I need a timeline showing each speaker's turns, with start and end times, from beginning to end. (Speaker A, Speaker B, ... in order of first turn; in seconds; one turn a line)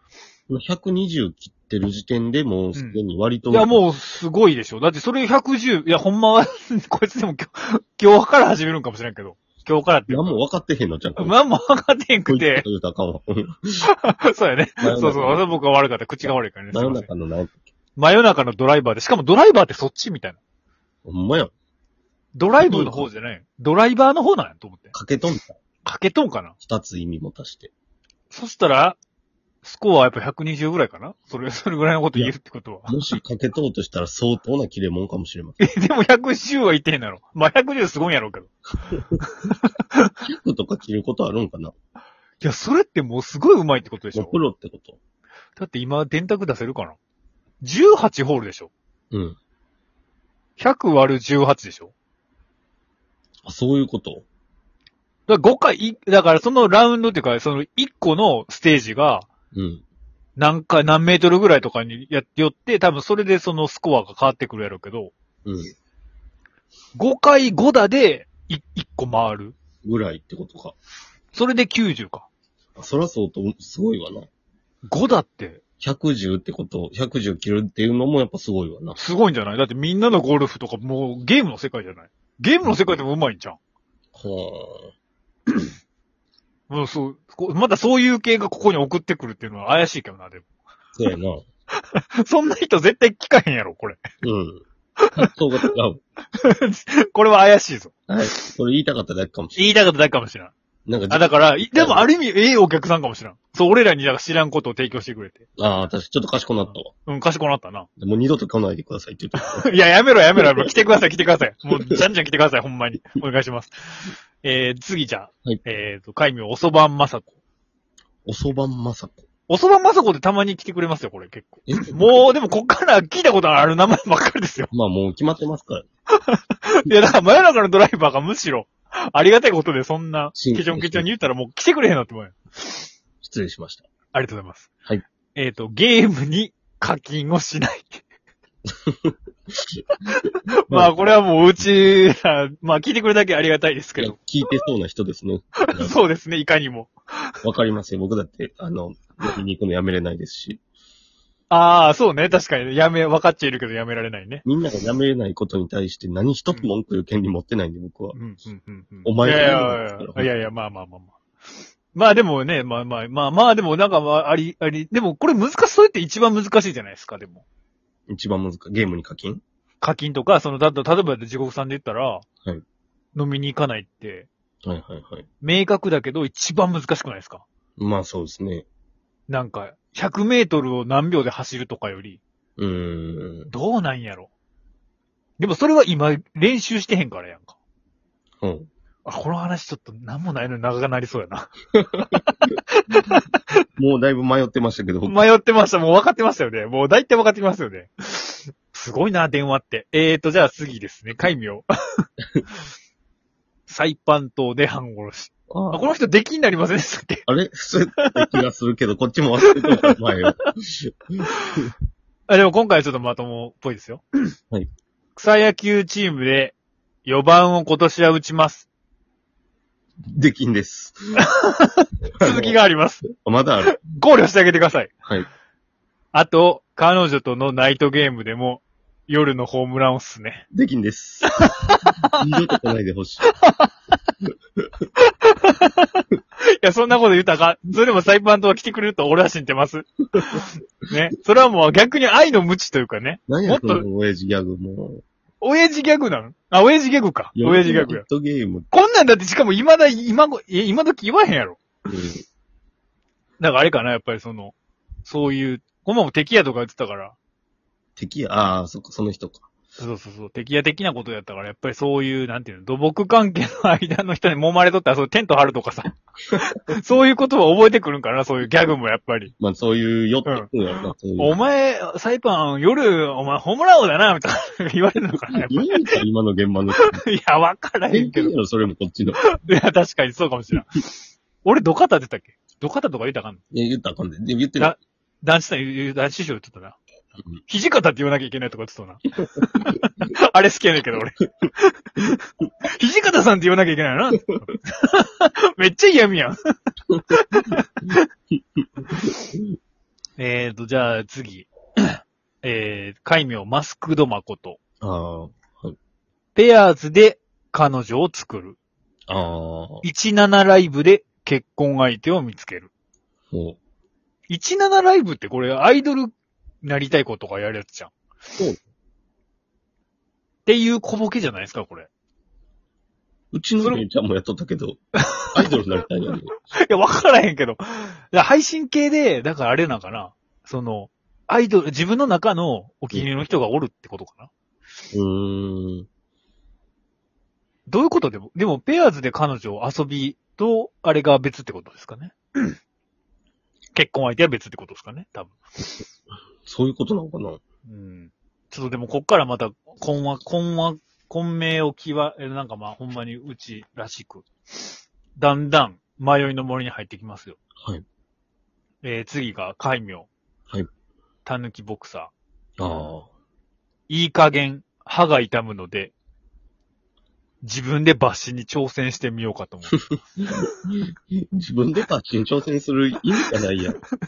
Speaker A: 0.5-3.8
Speaker B: 2.8-10.4
Speaker A: 10.1-11.4
Speaker B: 11.2-12.7
Speaker A: 12.3-13.9
Speaker B: 13.9-17.1
Speaker A: 14.8-15.6
Speaker A: 16.2-17.6
Speaker B: 18.0-20.4
Speaker A: 21.1-21.5
Speaker B: 22.4-24.9
Speaker A: 22.6-23.1
Speaker A: 24.9-25.6
Speaker B: 25.8-26.5
Speaker A: 26.6-27.7
Speaker B: 28.3-29.0
Speaker B: 29.6-33.0
Speaker A: 32.9-35.6
Speaker B: 35.6-38.5
Speaker A: 38.9-39.2
Speaker B: 39.2-40.1
Speaker A: 40.2-41.7
Speaker B: 42.4-44.4
Speaker A: 44.1-45.0
Speaker B: 45.6-47.0
Speaker B: 47.6-48.7
Speaker A: 49.1-49.4
Speaker B: 50.6-51.9
Speaker A: 53.5-54.2
Speaker B: 55.3-59.3
Speaker A: 59.5-59.8
Speaker B: 60.4-65.1
Speaker A: 65.5-65.7
Speaker B: 67.0-69.5
Speaker A: 69.8-70.8
Speaker B: 71.3-72.3
Speaker A: 72.8-74.3
Speaker B: 74.9-75.6
Speaker A: 75.8-79.0
Speaker B: 79.0-83.6
Speaker A: 84.1-84.9
Speaker B: 86.7-90.5
Speaker A: 91.0-91.5
Speaker B: 91.9-94.0
Speaker A: 94.2-94.6
Speaker B: 95.0-95.3
Speaker A: 95.2-96.0
Speaker B: 96.3-98.4
Speaker A: 98.1-99.6
Speaker B: 99.6-100.5
Speaker A: 100.9-102.1
Speaker B: 101.1-105.5
Speaker A: 105.6-106.9
Speaker B: 106.9-107.9
Speaker A: 108.0-109.7
Speaker B: 109.5-117.3
Speaker A: 110.4-110.7
Speaker A: 118.3-119.2
Speaker B: 119.5-124.7
Speaker A: 121.7-122.2
Speaker A: 124.7-125.9
Speaker B: 126.3-132.9
Speaker A: 130.3-131.1
Speaker A: 133.2-133.9
Speaker B: 134.1-134.7
Speaker B: 135.3-138.0
Speaker A: 138.9-139.1
Speaker B: 140.1-144.3
Speaker A: 140.7-141.0
Speaker A: 144.0-145.9
Speaker B: 145.6-146.9
Speaker A: 147.4-150.6
Speaker B: 151.5-154.4
Speaker A: 154.4-158.2
Speaker B: 158.1-167.4
Speaker A: 159.1-160.3
Speaker A: 168.1-169.4
Speaker B: 169.8-172.2
Speaker B: 173.2-174.3
Speaker A: 174.7-175.3
Speaker B: 175.4-177.4
Speaker A: 177.8-178.7
Speaker B: 179.3-182.2
Speaker A: 182.6-183.5
Speaker B: 183.5-184.3
Speaker B: 185.4-187.6
Speaker A: 188.4-188.7
Speaker B: 189.1-193.4
Speaker A: 192.0-192.2
Speaker A: 193.8-195.2
Speaker B: 195.1-202.1
Speaker B: 203.7-207.3
Speaker A: 205.5-205.9
Speaker A: 207.3-211.7
Speaker B: 208.0-208.3
Speaker B: 209.5-209.9
Speaker B: 212.3-214.3
Speaker B: 215.2-218.7
Speaker A: 220.1-221.0
Speaker B: 221.4-223.1
Speaker A: 222.2-222.6
Speaker A: 223.1-223.8
Speaker B: 223.8-224.9
Speaker B: 226.1-230.5
Speaker A: 230.5-231.4
Speaker B: 231.4-232.2
Speaker A: 232.1-233.3
Speaker B: 233.4-233.9
Speaker B: 235.0-236.0
Speaker B: 236.6-243.9
Speaker A: 243.3-245.0
Speaker B: 245.4-248.0
Speaker A: 247.4-248.7
Speaker B: 248.7-251.6
Speaker A: 251.9-252.2
Speaker B: 253.4-257.2
Speaker A: 258.0-259.5
Speaker B: 259.8-269.3
Speaker A: 269.4-271.4
Speaker B: 270.3-276.0
Speaker A: 275.3-277.0
Speaker B: 276.8-278.3
Speaker A: 277.9-279.2
Speaker B: 279.4-280.9
Speaker B: 281.4-283.4
Speaker A: 283.5-284.7
Speaker B: 284.6-286.8
Speaker B: 287.3-292.2
Speaker B: 292.8-296.4
Speaker B: 297.1-298.1
Speaker A: 299.0-299.4
Speaker B: 300.2-304.6
Speaker A: 304.8-305.8
Speaker B: 306.4-308.6
Speaker A: 309.1-309.9
Speaker B: 309.8-312.7
Speaker A: 313.3-313.6
Speaker B: 314.3-316.1
Speaker B: 316.6-317.9
Speaker B: 320.5-321.9
Speaker A: 323.3-324.8
Speaker B: 325.1-325.5
Speaker A: 325.3-326.3
Speaker B: 326.5-334.3
Speaker A: 334.9-335.9
Speaker B: 337.7-342.6
Speaker B: 343.7-345.7
Speaker A: 346.4-347.4
Speaker B: 347.7-357.4
Speaker B: 358.8-360.1
Speaker B: 361.2-362.1
Speaker A: 362.6-363.1
Speaker B: 363.9-365.9
Speaker B: 367.4-370.5
Speaker A: 370.2-373.8